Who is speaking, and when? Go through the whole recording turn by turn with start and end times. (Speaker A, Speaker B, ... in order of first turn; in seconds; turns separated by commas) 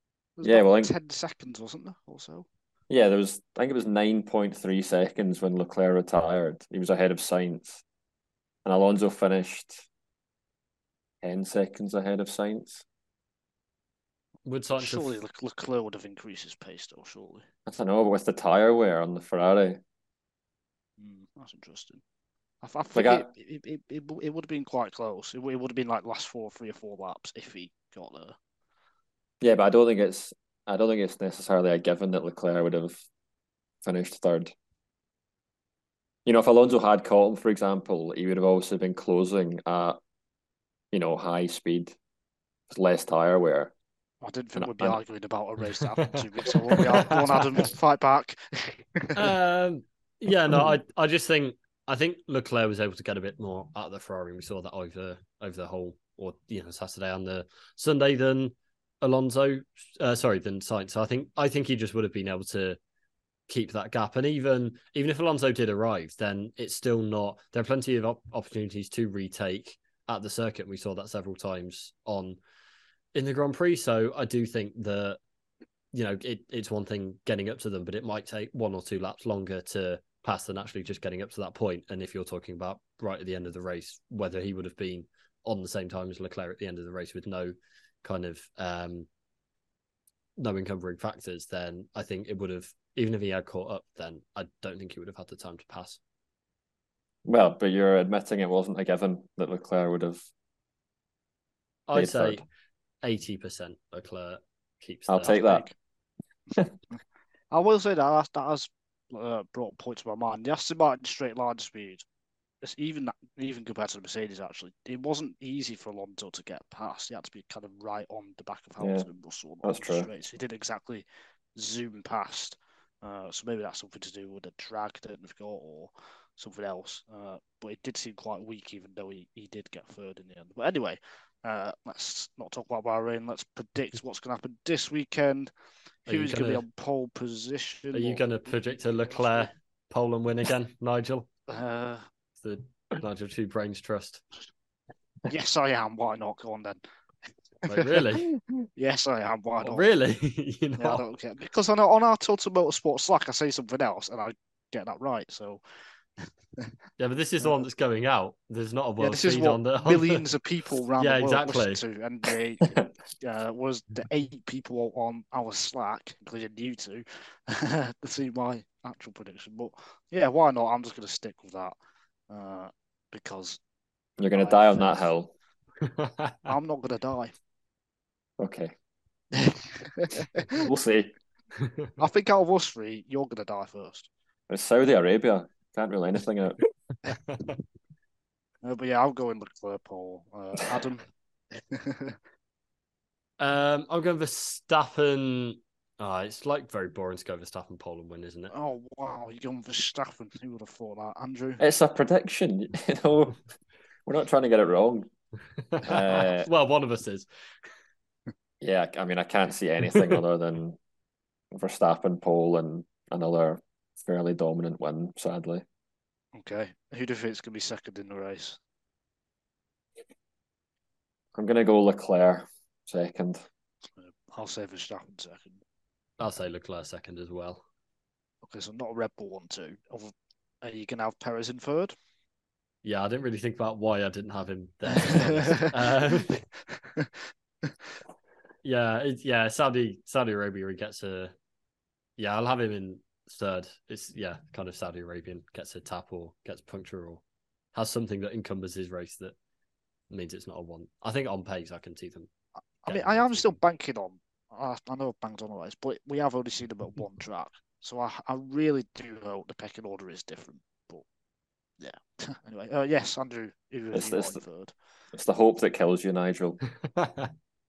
Speaker A: 0.4-2.5, Speaker B: 0.4-0.9, Speaker B: 2.9-7.8, Speaker B: 8.7-9.9, Speaker B: 11.2-12.8, Speaker C: 14.4-15.2, Speaker A: 14.8-17.5, Speaker B: 17.7-19.8, Speaker A: 21.0-22.0, Speaker A: 22.6-28.4, Speaker B: 22.9-23.3, Speaker B: 29.4-33.0, Speaker B: 33.8-34.5, Speaker B: 36.2-40.0, Speaker B: 40.9-42.0, Speaker B: 42.7-43.7, Speaker A: 44.2-49.3, Speaker B: 44.6-45.0, Speaker C: 46.8-47.6, Speaker C: 49.2-62.8, Speaker C: 63.5-72.4, Speaker C: 73.1-75.2, Speaker C: 75.9-89.1, Speaker C: 90.4-96.0, Speaker B: 97.3-100.3, Speaker C: 101.9-102.4, Speaker B: 102.0-102.4, Speaker C: 103.0-105.4, Speaker B: 105.1-105.7, Speaker A: 105.4-105.7, Speaker A: 107.5-112.0, Speaker A: 112.6-121.0, Speaker B: 118.8-119.1, Speaker B: 119.6-120.1, Speaker A: 121.6-135.5, Speaker A: 136.1-139.5, Speaker C: 136.1-136.6, Speaker C: 137.9-141.3, Speaker A: 141.5-142.1, Speaker C: 142.4-144.2, Speaker A: 145.3-146.8, Speaker A: 147.6-148.1, Speaker C: 147.7-148.3, Speaker A: 148.8-149.9, Speaker C: 149.6-151.0, Speaker A: 150.8-155.6, Speaker A: 156.2-156.7, Speaker C: 157.0-160.2, Speaker A: 159.0-171.8, Speaker C: 161.0-161.8, Speaker A: 172.3-173.6, Speaker B: 174.2-175.3, Speaker A: 174.3-175.1, Speaker C: 175.8-176.5, Speaker A: 176.5-177.3, Speaker B: 178.4-178.7, Speaker A: 179.3-180.6, Speaker B: 180.5-181.1, Speaker C: 181.6-181.9, Speaker A: 182.0-184.1, Speaker B: 184.5-186.6, Speaker C: 187.3-187.5, Speaker A: 188.6-192.2, Speaker C: 193.4-198.5, Speaker A: 198.5-201.6, Speaker B: 201.6-203.4, Speaker B: 204.1-205.1, Speaker C: 205.6-207.7, Speaker B: 205.8-206.5, Speaker B: 208.6-210.8, Speaker B: 211.5-215.7, Speaker A: 216.3-218.6, Speaker B: 221.3-223.4, Speaker A: 224.0-225.6, Speaker C: 226.2-227.6, Speaker A: 228.4-231.9, Speaker C: 232.8-236.3, Speaker A: 235.1-237.1, Speaker C: 238.6-241.3, Speaker C: 242.2-247.2, Speaker C: 247.7-249.3, Speaker C: 250.1-252.3, Speaker A: 252.8-261.0, Speaker C: 252.9-253.6, Speaker A: 261.8-264.7, Speaker B: 263.9-264.4, Speaker B: 265.1-266.6, Speaker C: 267.0-267.3